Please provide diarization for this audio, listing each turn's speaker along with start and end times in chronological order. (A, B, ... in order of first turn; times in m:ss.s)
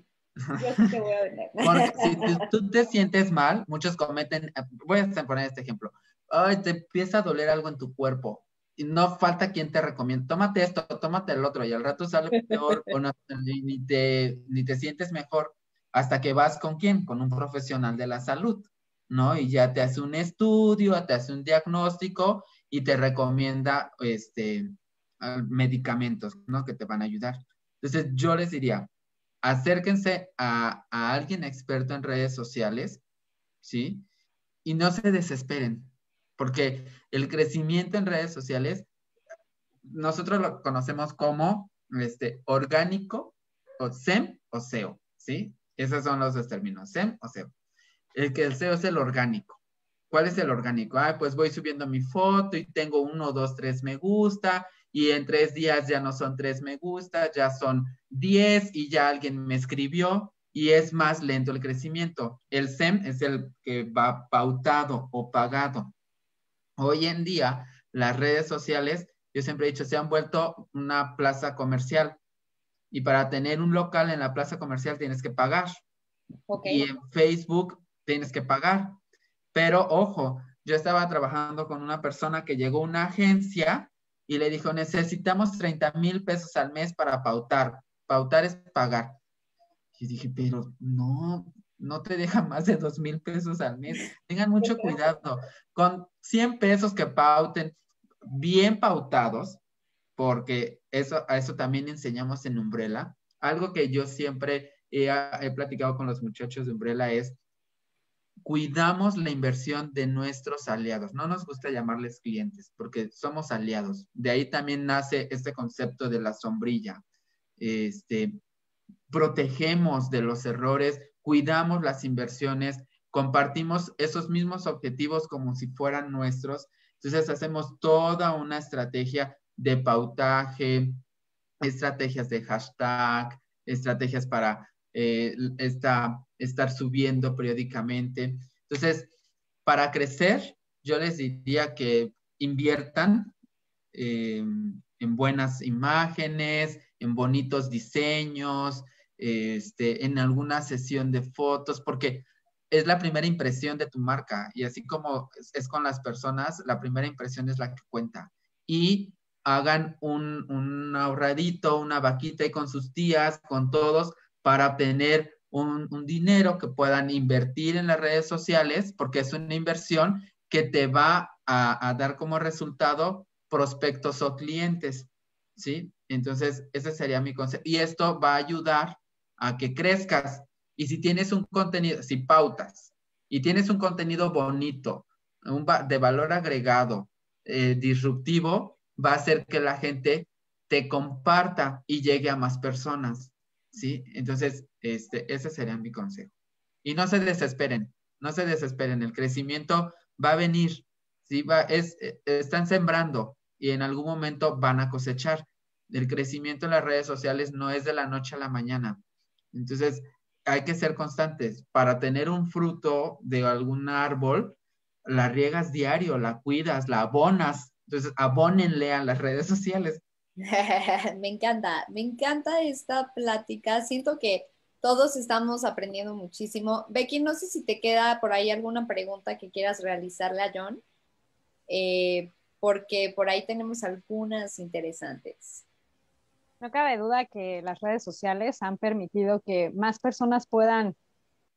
0:00.6-0:02.4 A
0:01.6-0:28.9 B
0:12.4-0:12.8 A
0:29.4-0:33.0 B
0:33.6-0:34.1 B
0:34.6-0:38.9 B
0:39.9-0:47.5 B
0:48.1-1:05.9 B
1:06.8-1:12.2 B
1:12.9-1:15.8 B
1:16.5-1:16.8 A
1:16.6-1:19.0 B
1:19.5-1:29.2 B
1:30.0-1:39.6 B
1:34.6-1:35.0 A
1:40.2-1:47.4 B
1:48.4-1:57.0 B
1:57.6-1:58.4 B
1:59.1-2:11.0 B
2:11.6-2:19.1 B
2:19.7-2:23.4 B
2:23.9-3:16.3 B
3:16.8-3:29.0 B
3:29.5-3:40.0 B
3:40.4-3:50.8 A
3:51.7-3:55.6 A
3:56.6-4:01.0 C